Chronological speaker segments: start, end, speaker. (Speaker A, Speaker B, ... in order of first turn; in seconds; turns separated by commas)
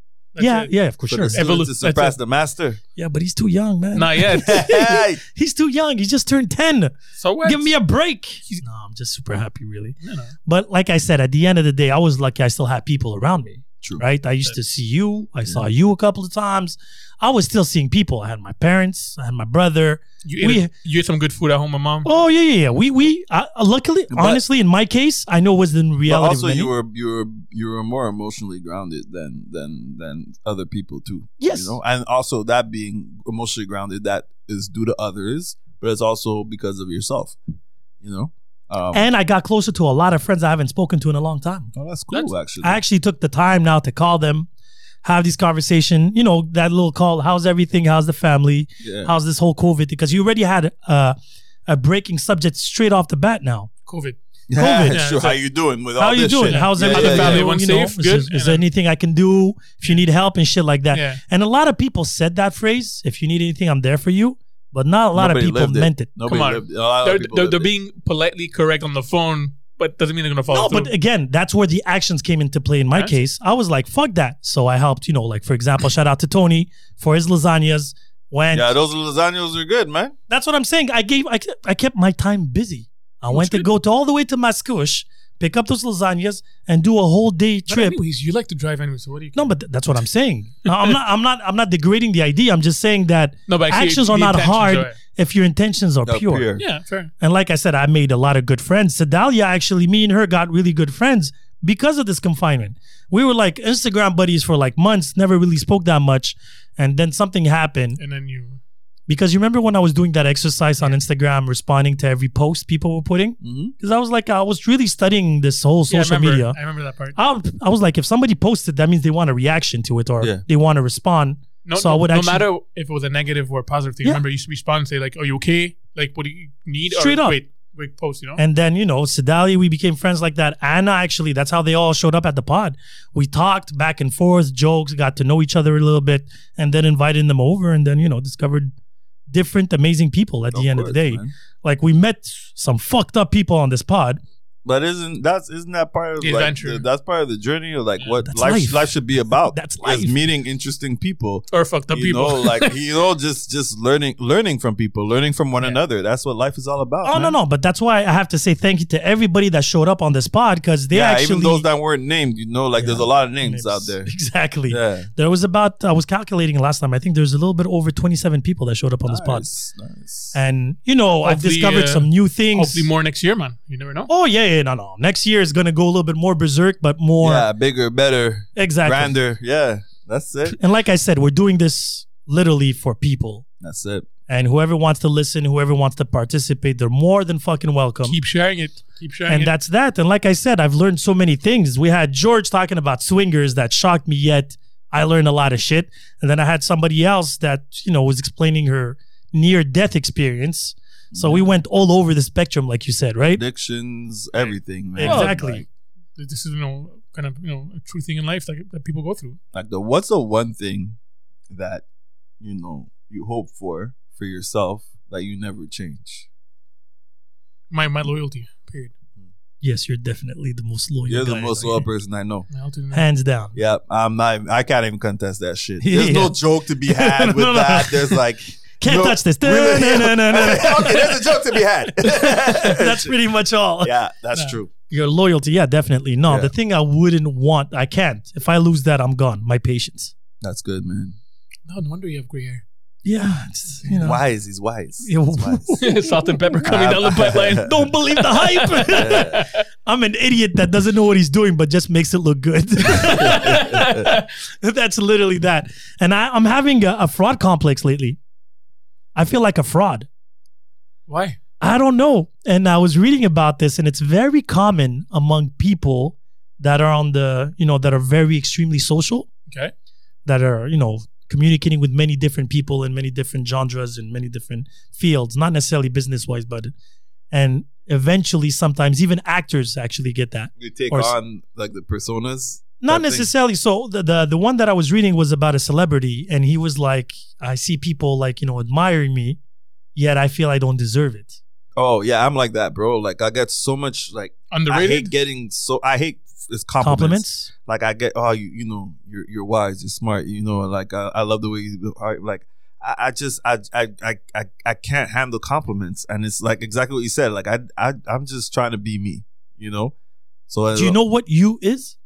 Speaker A: 0.3-0.7, Speaker B: 0.4-1.4, Speaker C: 1.1-2.8, Speaker A: 1.3-2.2, Speaker B: 3.0-20.7, Speaker A: 3.9-4.7, Speaker C: 4.4-5.2, Speaker A: 7.2-7.7, Speaker A: 10.0-10.3, Speaker A: 20.2-22.1, Speaker B: 22.1-26.7, Speaker C: 24.1-24.4, Speaker C: 26.1-37.4, Speaker B: 31.4-31.8, Speaker C: 38.0-39.1, Speaker B: 38.9-41.7, Speaker C: 41.7-42.8, Speaker B: 42.6-44.5, Speaker B: 45.0-51.2, Speaker C: 48.8-49.1, Speaker B: 51.7-53.7, Speaker A: 53.9-54.2, Speaker C: 54.5-57.5, Speaker B: 54.5-55.0, Speaker A: 54.9-55.4, Speaker B: 56.0-66.1, Speaker A: 56.5-58.6, Speaker A: 60.9-61.2, Speaker C: 65.2-67.7, Speaker A: 66.2-70.9, Speaker B: 70.5-78.7, Speaker C: 78.5-80.2, Speaker B: 80.3-88.0, Speaker A: 83.3-83.7, Speaker A: 87.7-89.5, Speaker B: 89.3-96.5, Speaker A: 93.5-95.0, Speaker C: 96.1-96.7, Speaker A: 96.6-97.1, Speaker B: 97.2-108.0, Speaker A: 108.0-108.6, Speaker B: 109.1-116.6, Speaker C: 113.4-113.7, Speaker A: 115.9-117.2, Speaker B: 117.2-122.5, Speaker A: 121.7-128.4, Speaker B: 126.9-127.4, Speaker B: 128.4-138.7, Speaker B: 139.3-144.2, Speaker C: 140.5-141.3, Speaker C: 144.7-157.3, Speaker A: 146.2-146.8, Speaker B: 148.2-150.2, Speaker A: 151.5-152.8, Speaker B: 157.0-161.7, Speaker C: 160.9-164.1, Speaker B: 162.8-169.5, Speaker C: 164.7-165.1, Speaker C: 169.1-170.3, Speaker B: 170.3-172.9, Speaker A: 171.2-174.1, Speaker B: 174.1-177.5, Speaker C: 177.2-180.6, Speaker B: 178.6-179.1, Speaker B: 180.5-183.4, Speaker C: 183.6-184.1, Speaker B: 184.3-188.2, Speaker A: 188.0-189.5, Speaker B: 189.3-203.4, Speaker C: 201.1-201.4, Speaker C: 203.3-205.7, Speaker B: 205.0-205.6, Speaker A: 205.0-205.4, Speaker A: 206.2-209.4, Speaker C: 209.5-211.0, Speaker C: 211.5-211.8, Speaker C: 212.4-216.3, Speaker A: 217.7-218.9, Speaker B: 219.6-221.9, Speaker C: 221.1-222.5, Speaker A: 222.5-223.1, Speaker B: 222.9-223.6, Speaker C: 223.6-233.1, Speaker B: 225.8-228.2, Speaker B: 228.8-231.3, Speaker B: 232.0-233.9, Speaker C: 233.8-234.7, Speaker B: 234.9-240.1, Speaker C: 240.4-241.2, Speaker A: 241.7-242.6, Speaker B: 243.1-244.2, Speaker C: 243.9-245.8, Speaker B: 245.0-246.0, Speaker A: 245.8-249.6, Speaker C: 246.7-247.7, Speaker B: 247.4-258.2, Speaker C: 248.9-249.5, Speaker A: 252.9-254.3, Speaker C: 253.2-254.1, Speaker B: 259.1-260.1, Speaker A: 261.1-261.4, Speaker B: 261.6-269.3, Speaker B: 270.3-276.7, Speaker B: 277.3-281.1, Speaker C: 280.6-283.3, Speaker B: 282.8-289.4, Speaker B: 289.9-291.4, Speaker C: 291.8-309.9, Speaker A: 294.5-295.1, Speaker B: 296.8-297.5, Speaker C: 310.5-311.0, Speaker B: 310.7-311.9